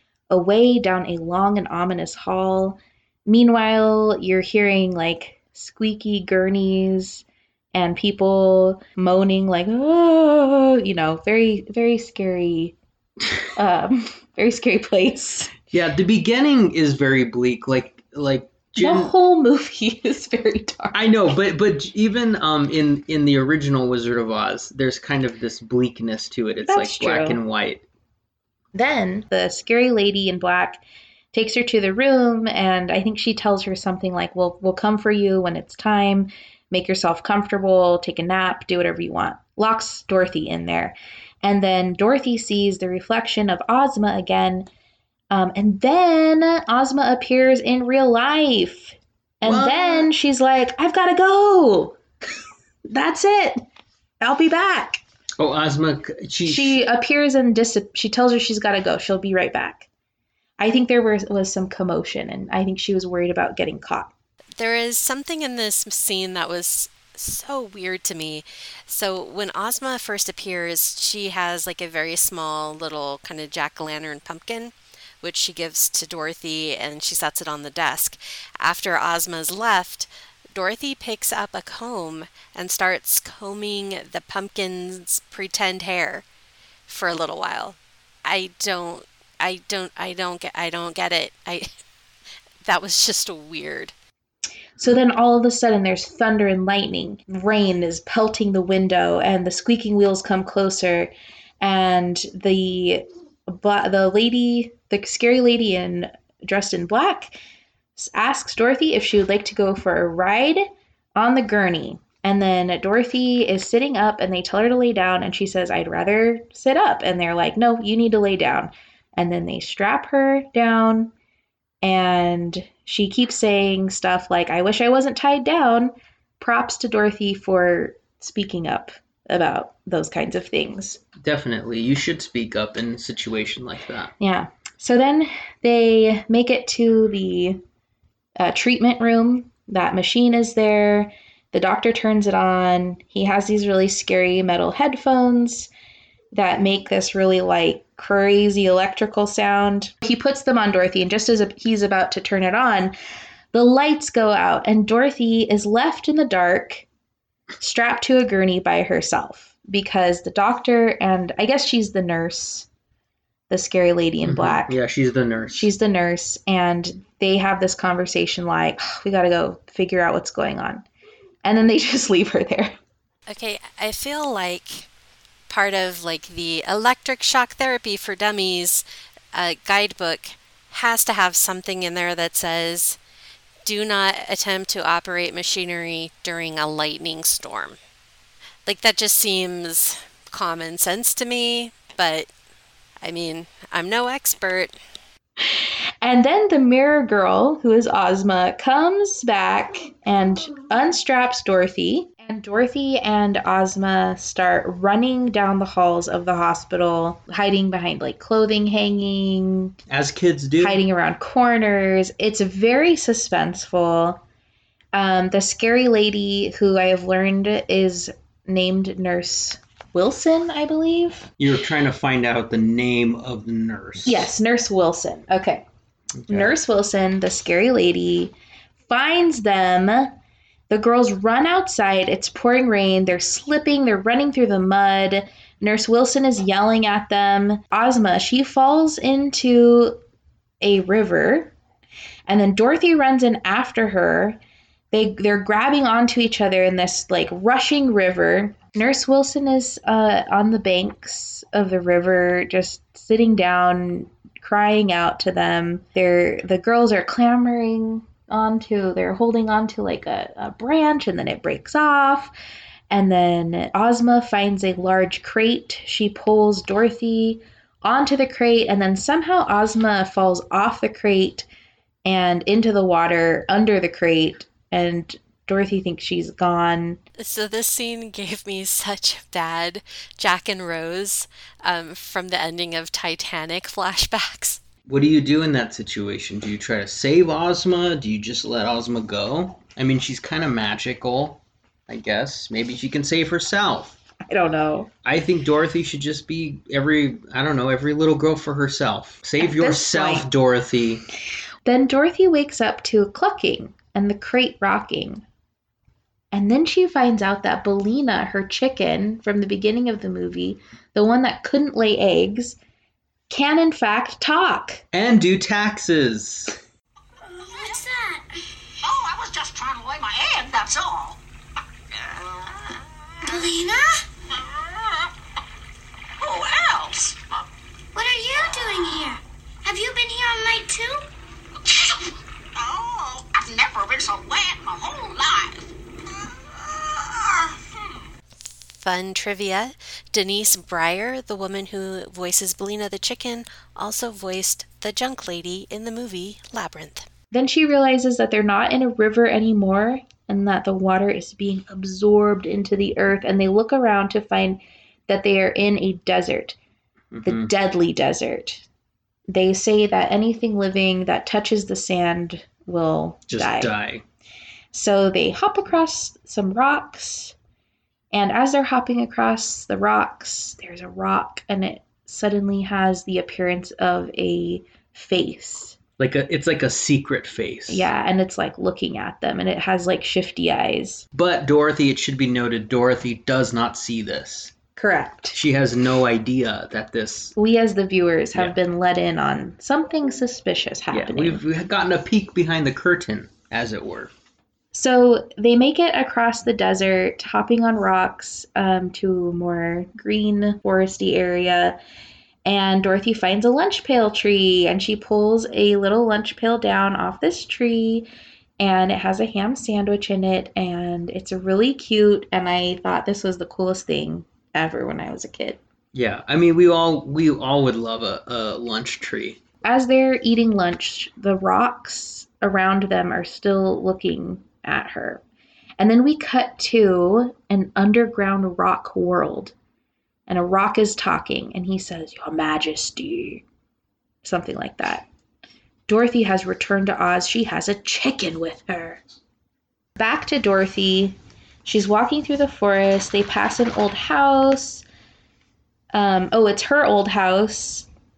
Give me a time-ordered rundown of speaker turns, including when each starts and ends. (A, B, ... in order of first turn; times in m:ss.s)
0:00.3-0:12.7 A
0:13.5-0:15.5 A
0:15.7-0:19.1 B
0:18.8-0:21.1 A
0:20.9-0:27.8 B
0:26.6-0:27.4 A
0:28.7-0:30.8 A
0:31.3-0:44.7 A
0:45.3-0:52.0 A
0:49.4-0:50.1 B
0:52.9-0:53.6 A
0:54.2-0:55.0 A
0:55.4-0:56.8 B
0:56.4-0:59.8 A
1:00.6-1:04.1 A
1:04.6-1:26.2 C
1:26.9-1:31.7 C
1:32.6-1:33.9 C
1:34.8-1:47.4 A
1:48.0-2:01.1 A
2:01.8-2:11.0 A
2:11.2-2:14.1 B
2:14.2-2:17.6 A
2:18.4-2:25.7 A
2:26.3-2:32.9 A
2:33.5-2:36.8 A
2:37.6-2:42.7 A
2:43.5-2:44.8 A
2:44.2-2:45.7 B
2:45.6-2:50.8 A
2:51.4-2:52.8 A
2:53.3-2:54.9 C
2:55.5-3:03.0 C
3:03.6-3:07.8 C
3:08.6-3:12.3 C
3:13.0-3:14.7 C
3:15.4-3:29.7 A
3:29.9-3:30.8 B
3:30.6-3:34.2 A
3:34.9-3:41.2 A
3:41.4-3:44.3 B
3:44.0-3:45.6 A
3:46.2-3:46.5 B
3:46.3-3:48.3 A
3:48.9-3:50.1 A
3:50.7-4:00.0 A
4:00.6-4:01.5 A
4:02.3-4:04.4 A
4:04.9-4:22.3 A
4:22.9-4:31.5 A
4:32.0-4:37.0 A
4:37.2-4:44.6 C
4:44.9-4:54.0 B
4:54.3-4:54.9 A
4:55.0-5:01.0 B
4:59.4-5:00.2 A
5:01.6-5:05.2 A
5:06.3-5:12.6 A
5:13.3-5:14.8 A
5:14.9-5:16.6 B
5:17.4-5:18.3 D
5:18.8-5:21.2 E
5:22.0-5:23.3 E
5:23.2-5:24.0 D
5:24.3-5:25.1 E
5:26.2-5:27.2 E
5:27.9-5:31.1 D
5:31.7-5:32.0 E
5:32.6-5:35.7 E
5:36.3-5:37.6 E
5:38.8-5:47.1 C
5:47.3-5:56.6 A
5:57.1-5:57.5 B
5:57.2-5:58.6 A
5:59.3-6:03.7 A
6:03.3-6:04.0 B
6:04.7-6:07.3 A
6:08.1-6:15.8 A
6:16.0-6:17.9 B
6:17.7-6:21.0 A
6:21.1-6:24.5 B
6:24.8-6:25.4 A
6:25.3-6:27.3 B
6:27.4-6:31.4 A
6:30.9-6:34.1 B
6:34.7-6:41.8 A
6:42.4-6:48.1 A
6:48.6-6:55.6 A
6:55.9-6:59.4 B
6:59.6-7:05.2 A
7:05.8-7:09.5 A
7:10.3-7:13.4 A
7:14.2-7:15.0 A
7:15.9-7:19.0 A
7:20.0-7:24.8 A
7:25.9-7:27.9 A